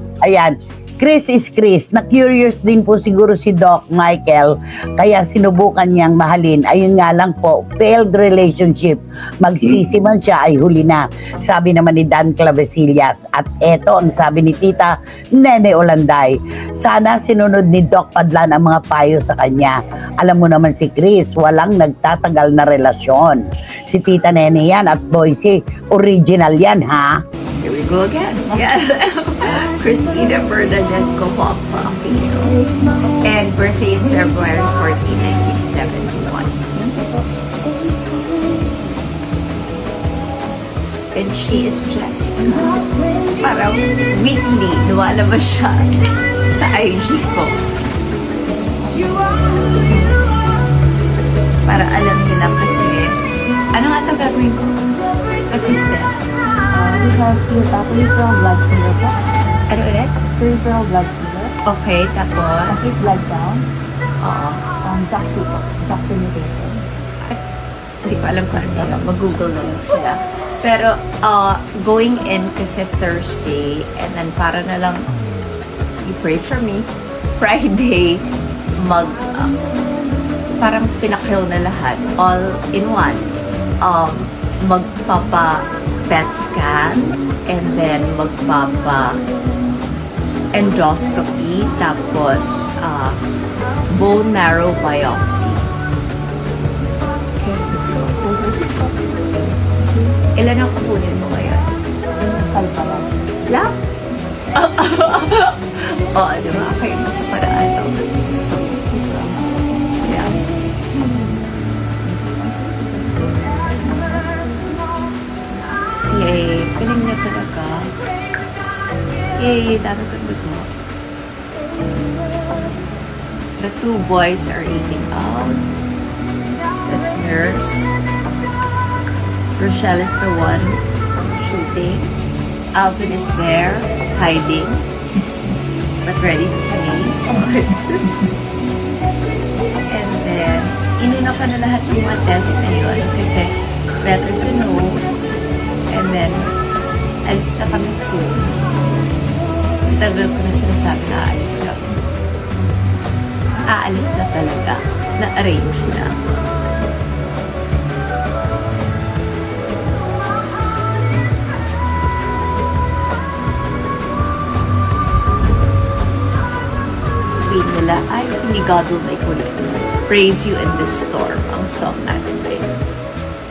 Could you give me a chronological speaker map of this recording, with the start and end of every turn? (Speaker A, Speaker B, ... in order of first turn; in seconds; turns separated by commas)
Speaker A: 0.2-27.1, Speaker B: 27.6-32.7, Speaker B: 33.2-36.7, Speaker B: 41.1-42.8, Speaker B: 43.4-45.9, Speaker B: 46.5-47.6, Speaker B: 51.6-53.2, Speaker B: 53.7-54.8, Speaker B: 55.5-56.4, Speaker C: 56.7-59.2, Speaker B: 59.7-60.1, Speaker C: 60.2-61.6, Speaker B: 61.6-62.9, Speaker C: 62.7-63.7, Speaker B: 64.2-64.7, Speaker C: 64.8-66.9, Speaker B: 68.0-75.1, Speaker C: 68.5-69.1, Speaker B: 76.0-78.2, Speaker B: 78.8-79.6, Speaker B: 80.6-83.3, Speaker B: 83.8-89.2, Speaker B: 90.5-93.2, Speaker B: 93.9-95.6, Speaker B: 97.4-98.5, Speaker C: 98.3-100.1, Speaker B: 100.3-101.7, Speaker C: 102.2-103.4, Speaker B: 103.5-103.7, Speaker B: 104.5-108.2, Speaker C: 108.3-109.8, Speaker B: 110.0-110.3, Speaker C: 110.9-111.3, Speaker C: 112.0-114.4, Speaker B: 116.1-117.9, Speaker B: 119.4-120.7, Speaker B: 123.6-125.6, Speaker B: 126.9-127.9, Speaker B: 129.6-132.1, Speaker B: 132.7-134.8, Speaker B: 136.0-138.1, Speaker B: 139.9-145.1, Speaker B: 145.9-146.6, Speaker B: 147.2-148.6, Speaker B: 149.8-151.9, Speaker B: 153.7-156.2, Speaker B: 167.3-172.7